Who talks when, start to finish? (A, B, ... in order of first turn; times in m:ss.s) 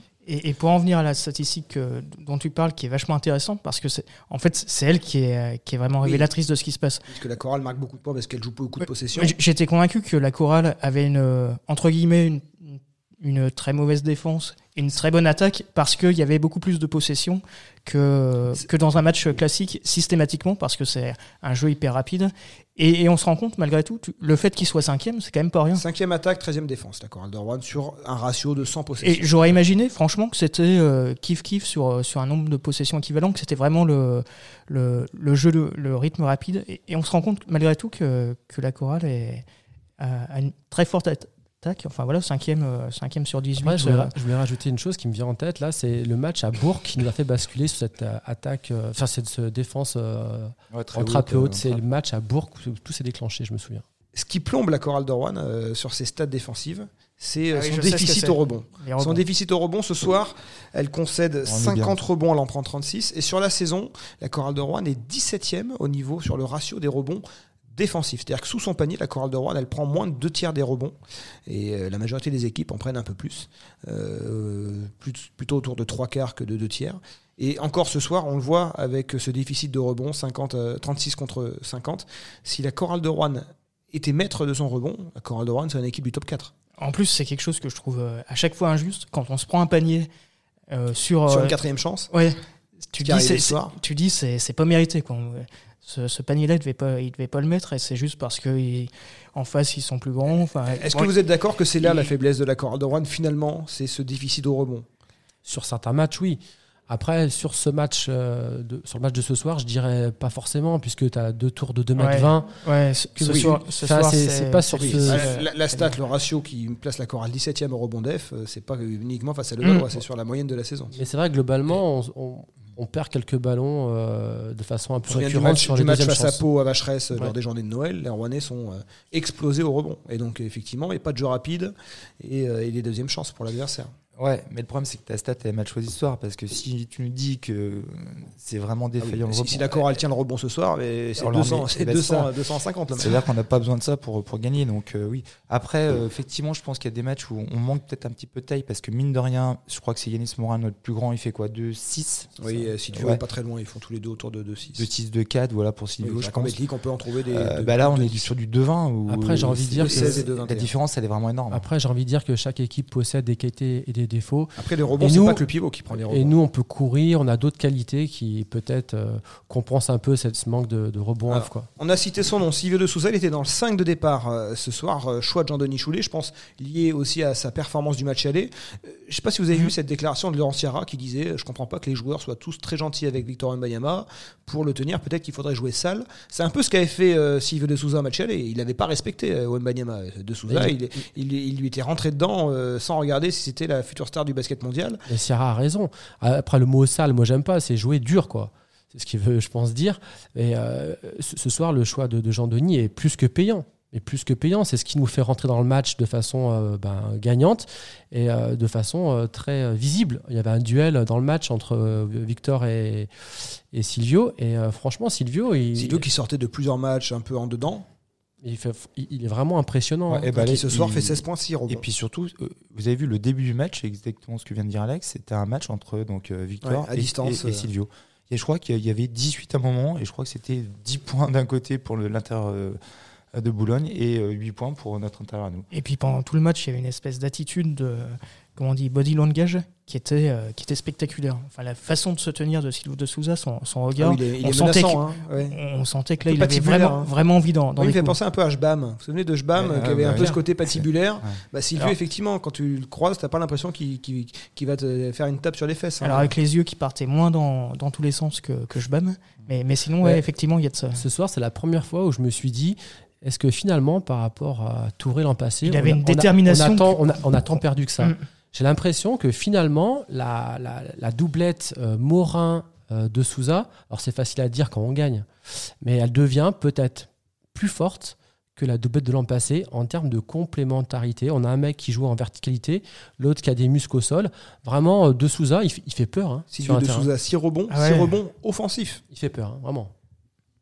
0:00.2-0:07.0 A
0:06.0-0:06.3 B
0:07.1-0:09.3 B
0:08.8-0:25.8 A
0:25.7-0:29.3 B
0:29.0-0:39.4 A
0:40.0-0:44.1 A
0:43.6-0:53.8 C
0:50.7-0:51.8 D
0:54.1-1:26.5 B
0:57.5-0:59.2 A
1:01.4-1:02.0 D
1:26.8-1:30.1 A
1:30.7-1:31.6 A
1:31.3-1:32.1 B
1:32.1-1:32.4 A
1:32.9-1:41.1 A
1:33.0-1:33.7 B
1:40.8-1:44.8 B
1:41.8-1:42.1 A
1:45.4-1:52.6 C
1:52.0-1:56.0 A
1:53.1-1:55.3 C
1:53.3-1:53.5 B
1:54.8-2:01.0 B
1:59.6-1:59.9 A
2:00.9-2:06.4 C
2:05.1-2:13.9 B
2:14.2-2:19.8 D
2:19.0-2:23.2 B
2:21.2-2:22.3 D
2:22.9-2:33.2 D
2:32.4-2:34.8 B
2:34.8-2:36.6 D
2:36.0-2:38.3 B
2:37.3-2:41.6 D
2:39.1-2:40.2 C
2:39.8-2:40.7 B
2:41.5-2:51.7 C
2:44.6-2:46.3 B
2:51.3-3:15.0 B
3:10.5-3:10.8 C
3:15.1-3:33.1 C
3:33.7-3:36.0 C
3:35.8-3:37.8 B
3:38.4-3:40.3 C
3:40.1-3:52.8 D
3:40.3-3:41.8 B
3:46.6-3:47.6 B
3:53.3-3:55.7 D
3:55.7-4:08.2 A
4:04.0-4:05.6 B
4:06.2-4:07.1 B
4:07.8-4:16.3 B
4:09.5-4:11.4 D
4:10.1-4:10.4 A
4:16.0-4:21.0 A
4:20.9-4:47.1 C
4:25.6-4:27.1 A
4:46.5-4:49.0 B
4:47.7-4:48.2 A
4:49.1-4:49.9 C